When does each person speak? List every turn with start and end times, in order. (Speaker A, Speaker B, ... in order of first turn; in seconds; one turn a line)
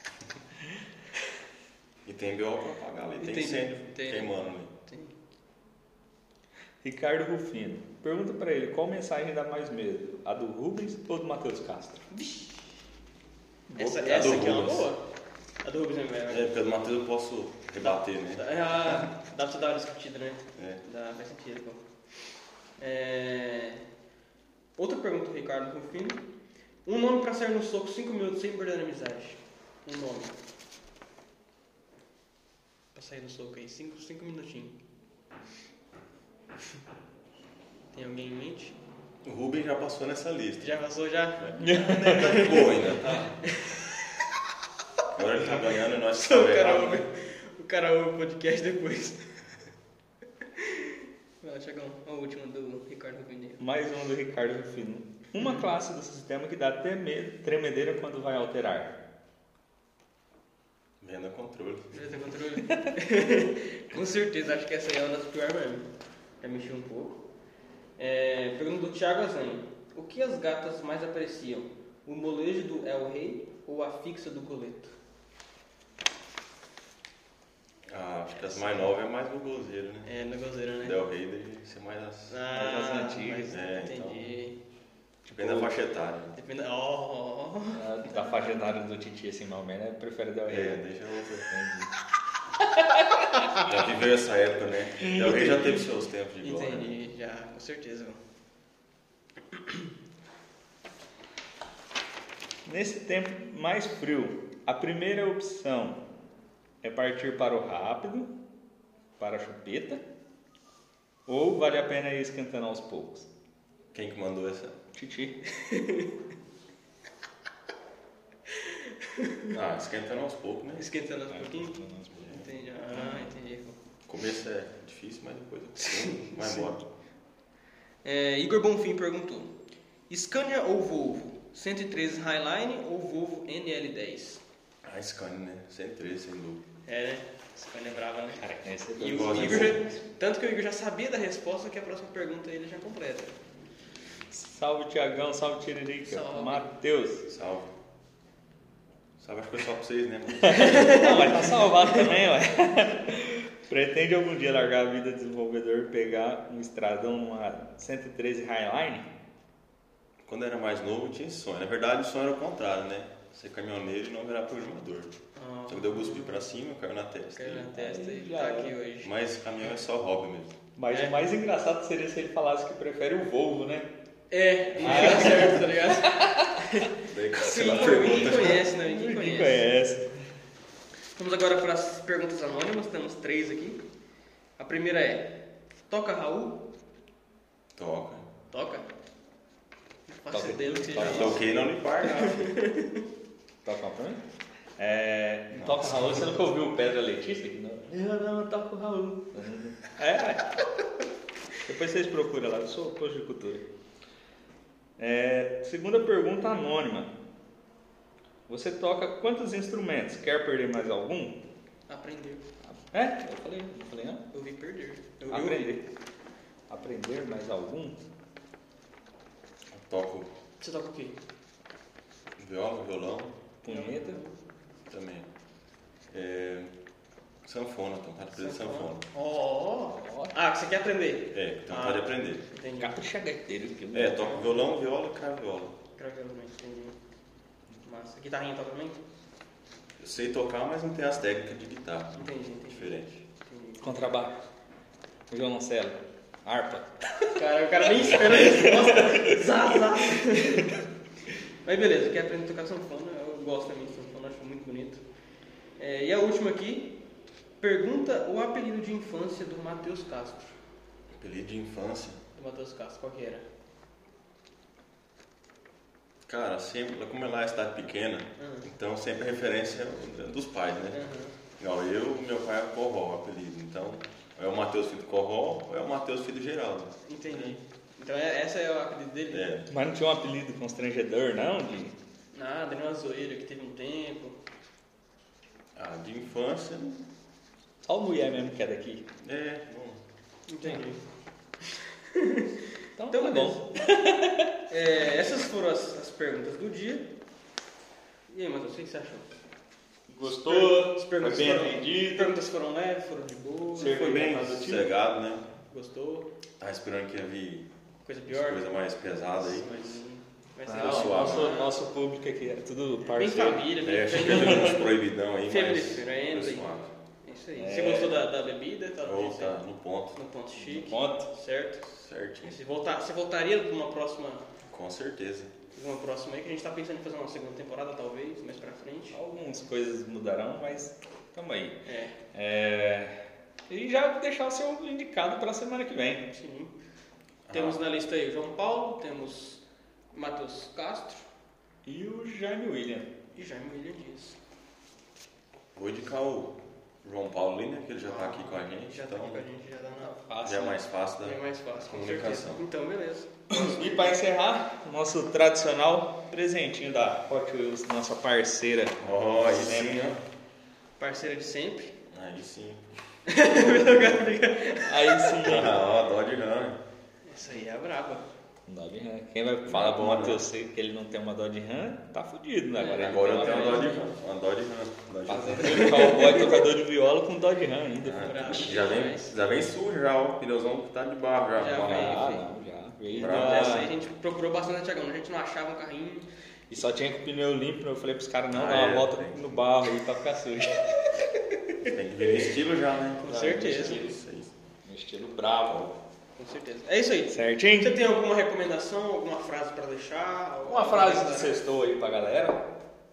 Speaker A: 2.0-4.7
Speaker B: 3.2-5.1
Speaker C: 6.8-12.0
Speaker B: 12.1-12.6
Speaker C: 13.7-14.4
Speaker B: 13.8-15.0
Speaker A: 14.1-14.9
Speaker B: 15.6-16.5
Speaker A: 16.3-18.4
Speaker B: 17.8-21.8
Speaker A: 20.5-20.8
Speaker B: 22.8-23.8
Speaker B: 24.8-26.2
Speaker B: 26.8-30.3
Speaker B: 32.9-34.8
Speaker B: 37.9-38.8
Speaker A: 39.2-40.8
Speaker B: 40.6-44.0
Speaker A: 41.4-43.2
Speaker C: 41.6-42.5
Speaker A: 45.1-47.0
Speaker B: 46.1-49.4
Speaker B: 50.6-50.9
Speaker B: 51.4-53.6
Speaker C: 53.6-59.0
Speaker B: 55.4-55.6
Speaker A: 61.0-62.0
Speaker B: 61.9-65.9
Speaker B: 66.4-67.2
Speaker B: 68.0-74.9
Speaker A: 77.9-80.1
Speaker B: 78.3-78.9
Speaker B: 80.0-81.0
Speaker A: 80.8-82.4
Speaker B: 82.3-84.6
Speaker C: 82.5-83.6
Speaker A: 83.5-84.3
Speaker A: 85.3-86.3
Speaker C: 85.3-85.7
Speaker B: 86.3-87.9
Speaker C: 87.7-90.8
Speaker A: 90.5-91.5
Speaker C: 91.5-91.9
Speaker C: 92.9-93.2
Speaker A: 93.6-97.0
Speaker C: 95.0-95.5
Speaker B: 96.4-98.2
Speaker C: 102.7-106.0
Speaker C: 106.8-108.3
Speaker C: 109.2-110.0
Speaker C: 111.3-113.3
Speaker A: 113.9-114.8
Speaker C: 114.9-115.4
Speaker B: 115.5-116.1
Speaker B: 118.5-119.5
Speaker A: 119.5-120.8
Speaker B: 120.8-123.8
Speaker C: 121.3-122.3
Speaker A: 122.2-122.4
Speaker C: 123.0-123.2
Speaker A: 124.1-126.8
Speaker B: 125.8-126.7
Speaker B: 128.0-129.5
Speaker B: 130.1-134.4
Speaker A: 134.8-136.6
Speaker B: 136.8-143.3
Speaker C: 138.4-139.9
Speaker A: 139.0-139.8
Speaker C: 144.3-147.2
Speaker B: 146.0-146.7
Speaker A: 147.3-147.7
Speaker A: 149.2-151.1
Speaker C: 150.4-159.1
Speaker B: 150.5-152.0
Speaker A: 160.2-165.1
Speaker B: 165.3-166.4
Speaker A: 165.7-167.7
Speaker B: 167.3-169.1
Speaker C: 167.7-168.8
Speaker A: 169.0-170.5
Speaker C: 170.8-173.9
Speaker B: 170.9-171.2
Speaker B: 174.3-179.6
Speaker A: 174.8-175.5
Speaker C: 174.8-176.5
Speaker A: 177.1-178.7
Speaker C: 177.5-180.1
Speaker B: 181.2-183.8
Speaker B: 184.6-186.7
Speaker A: 187.8-188.2
Speaker B: 188.5-188.8
Speaker B: 190.1-191.4
Speaker C: 190.3-191.6
Speaker A: 190.9-192.6
Speaker B: 192.0-193.0
Speaker C: 193.6-194.2
Speaker C: 194.8-200.5
Speaker A: 195.5-196.3
Speaker C: 201.6-203.6
Speaker C: 205.0-207.1
Speaker C: 208.5-211.4
Speaker B: 211.9-212.4
Speaker C: 212.7-214.2
Speaker B: 214.3-215.7
Speaker C: 215.3-215.8
Speaker C: 216.7-218.0
Speaker A: 219.7-220.3
Speaker B: 220.6-221.2
Speaker A: 222.4-223.3
Speaker C: 223.6-224.2
Speaker B: 223.7-224.3
Speaker A: 224.9-225.3
Speaker A: 226.1-226.7
Speaker A: 227.4-229.0
Speaker B: 228.3-232.9
Speaker C: 229.9-230.3
Speaker A: 231.3-232.4
Speaker C: 232.8-234.3
Speaker A: 233.9-235.7
Speaker B: 235.9-236.9
Speaker B: 237.8-239.0
Speaker A: 240.0-243.2
Speaker B: 242.1-244.2
Speaker C: 243.8-244.4
Speaker C: 245.3-247.3
Speaker B: 247.3-250.8
Speaker C: 248.3-250.7
Speaker B: 251.6-255.0
Speaker B: 255.8-257.0
Speaker B: 257.6-260.6
Speaker A: 261.1-262.2
Speaker B: 262.3-263.4
Speaker A: 266.3-271.0
Speaker B: 268.4-268.7
Speaker B: 270.9-271.3
Speaker A: 271.6-277.6
Speaker B: 277.0-279.5
Speaker A: 279.3-279.7
Speaker C: 279.7-281.9
Speaker B: 282.3-284.4
Speaker A: 285.8-287.0
Speaker C: 287.9-289.0
Speaker A: 289.2-290.0
Speaker B: 290.5-291.0
Speaker B: 291.7-292.5
Speaker C: 293.0-294.5
Speaker B: 293.1-293.6
Speaker B: 294.7-297.1
Speaker B: 298.3-299.2
Speaker C: 300.1-302.3
Speaker B: 300.2-304.0
Speaker C: 303.7-304.9
Speaker A: 303.8-305.5
Speaker B: 305.7-306.3
Speaker A: 306.6-307.7
Speaker B: 308.0-308.6
Speaker A: 308.3-310.0
Speaker B: 309.4-311.8
Speaker C: 310.6-313.7
Speaker A: 310.7-311.6
Speaker B: 313.1-314.9
Speaker A: 313.8-316.9
Speaker B: 315.4-316.7
Speaker B: 317.2-319.6
Speaker C: 317.5-318.2
Speaker A: 319.0-320.2
Speaker B: 320.1-321.8
Speaker C: 320.6-321.3
Speaker A: 321.8-322.6
Speaker B: 322.4-324.4
Speaker A: 324.7-325.5
Speaker B: 325.7-329.2
Speaker C: 329.1-331.8
Speaker B: 331.8-332.1
Speaker C: 332.3-333.1
Speaker C: 333.7-336.2
Speaker B: 336.3-336.7
Speaker A: 337.5-337.8
Speaker B: 337.5-341.2
Speaker C: 341.8-343.1
Speaker B: 343.3-344.4
Speaker A: 345.7-349.4
Speaker B: 348.0-350.2
Speaker C: 350.0-350.8
Speaker A: 350.4-352.6
Speaker B: 351.2-354.1
Speaker C: 353.5-360.1
Speaker A: 359.0-360.2
Speaker B: 361.0-361.9
Speaker A: 362.1-362.9
Speaker B: 363.3-365.4
Speaker C: 364.8-365.8
Speaker A: 365.4-366.8
Speaker B: 367.2-368.2
Speaker C: 368.7-374.0
Speaker A: 369.6-370.4
Speaker B: 372.8-374.0
Speaker A: 373.0-376.2
Speaker C: 375.2-378.7
Speaker B: 375.6-376.5
Speaker A: 378.0-382.4
Speaker B: 378.2-379.3
Speaker B: 381.5-382.5
Speaker C: 381.8-383.9
Speaker B: 383.1-386.2
Speaker A: 383.1-383.9
Speaker C: 386.7-391.1
Speaker A: 388.5-389.6
Speaker A: 391.8-394.5
Speaker B: 393.2-394.0
Speaker C: 393.2-394.2
Speaker C: 394.8-395.9
Speaker B: 396.4-401.6
Speaker C: 397.3-398.0
Speaker C: 400.6-402.6